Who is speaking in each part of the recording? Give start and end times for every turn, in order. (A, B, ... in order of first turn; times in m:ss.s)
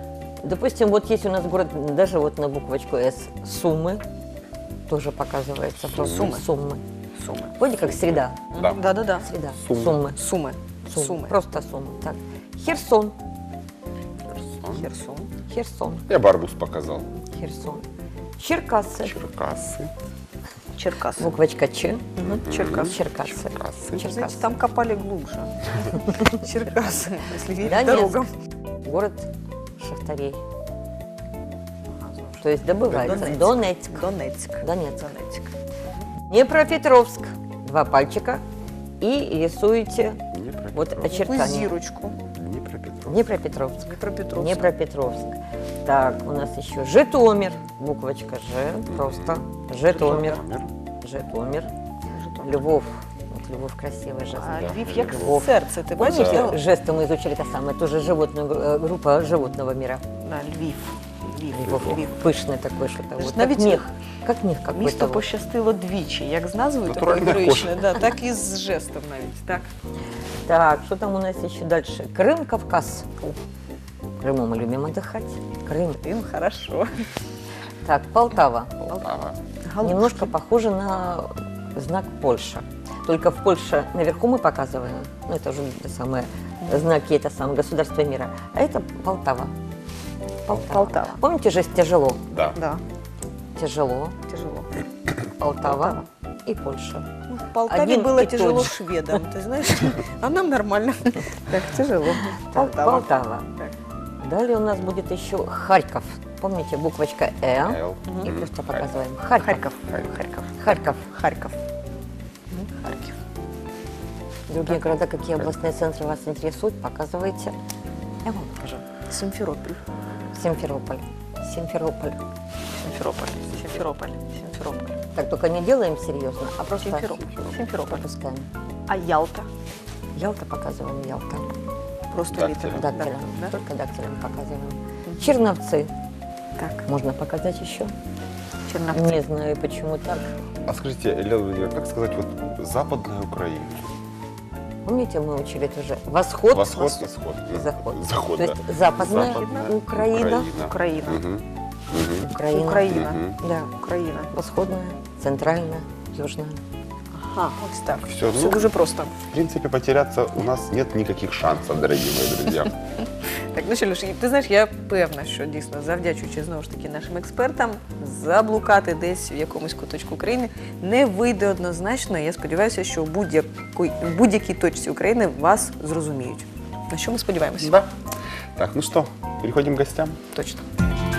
0:00.4-0:04.0 A
0:04.9-0:06.8 A
0:05.9-0:06.4 B
0:06.0-0:06.4 C
0:07.2-0:07.6 C
0:07.6-0:08.4 A
0:07.9-0:08.9 B
0:08.5-0:09.3 C
0:09.2-0:10.2 A
0:09.6-0:10.0 B
0:10.1-0:11.4 C
0:10.8-0:13.2 A
0:14.3-0:14.9 B
0:14.7-0:15.3 C
0:15.5-0:16.0 A
0:16.1-0:17.1 B
0:17.3-0:17.8 A
0:18.4-0:19.1 A
0:19.0-0:19.9 B
0:20.8-0:21.3 C
0:21.2-0:22.2 A
0:22.2-0:24.1 B
0:22.2-0:22.9 C
0:22.8-0:24.5 A
0:24.0-0:28.3 C
0:27.6-0:28.2 A
0:28.8-0:30.4 A
0:31.9-0:35.5 C
0:32.4-0:35.1 A
0:36.3-0:38.4 A
0:39.0-0:40.2 A
0:40.3-0:41.3 B
0:40.7-0:41.7 A
0:41.1-0:42.2 C
0:42.3-0:43.2 B
0:43.1-0:50.4 A
0:43.8-0:44.7 C
0:48.9-0:50.7 B
0:51.0-0:51.7 A
0:52.1-0:52.6 C
0:52.4-1:00.0 A
0:54.3-0:56.6 C
0:54.5-0:55.5 B
0:56.0-0:56.5 B
1:00.2-1:02.2 C
1:01.5-1:05.2 A
1:01.7-1:02.0 B
1:03.2-1:03.9 C
1:04.7-1:09.7 C
1:06.8-1:07.8 B
1:10.4-1:13.3 A
1:14.2-1:16.0 A
1:16.0-1:17.0 C
1:17.8-1:18.8 A
1:18.9-1:19.4 B
1:19.6-1:20.3 C
1:19.8-1:29.5 A
1:30.4-1:32.2 A
1:30.5-1:31.2 C
1:32.3-1:32.6 B
1:32.6-1:32.8 C
1:33.6-1:34.2 A
1:34.3-1:34.7 C
1:35.4-1:37.1 A
1:35.6-1:36.0 C
1:37.3-1:43.7 C
1:37.6-1:39.1 A
1:42.5-1:43.5 A
1:44.2-1:49.7 A
1:47.6-1:48.9 B
1:49.4-1:51.6 C
1:49.8-1:50.2 B
1:50.6-1:51.0 A
1:52.5-1:53.2 C
1:54.5-1:57.6 A
1:58.2-1:58.8 A
1:59.0-1:59.8 C
2:00.3-2:02.2 A
2:02.7-2:05.0 C
2:05.1-2:07.2 A
2:06.8-2:08.0 C
2:07.2-2:07.5 B
2:07.7-2:08.5 A
2:08.9-2:09.5 C
2:10.1-2:11.5 A
2:12.1-2:13.6 C
2:12.3-2:12.9 B
2:12.7-2:15.9 A
2:16.6-2:16.8 C
2:16.8-2:17.9 A
2:18.7-2:19.2 C
2:18.9-2:20.3 A
2:20.6-2:23.9 B
2:24.8-2:30.5 A
2:26.5-2:32.3 B
2:29.0-2:29.7 C
2:30.6-2:31.2 C
2:32.2-2:33.7 A
2:32.4-2:33.2 C
2:32.9-2:33.4 B
2:33.7-2:34.3 C
2:34.3-2:36.6 A
2:37.1-2:39.1 C
2:38.0-2:38.7 B
2:39.3-2:42.7 B
2:43.1-2:57.8 C
2:57.6-2:57.9 B
2:58.6-3:00.2 B
3:00.3-3:00.6 C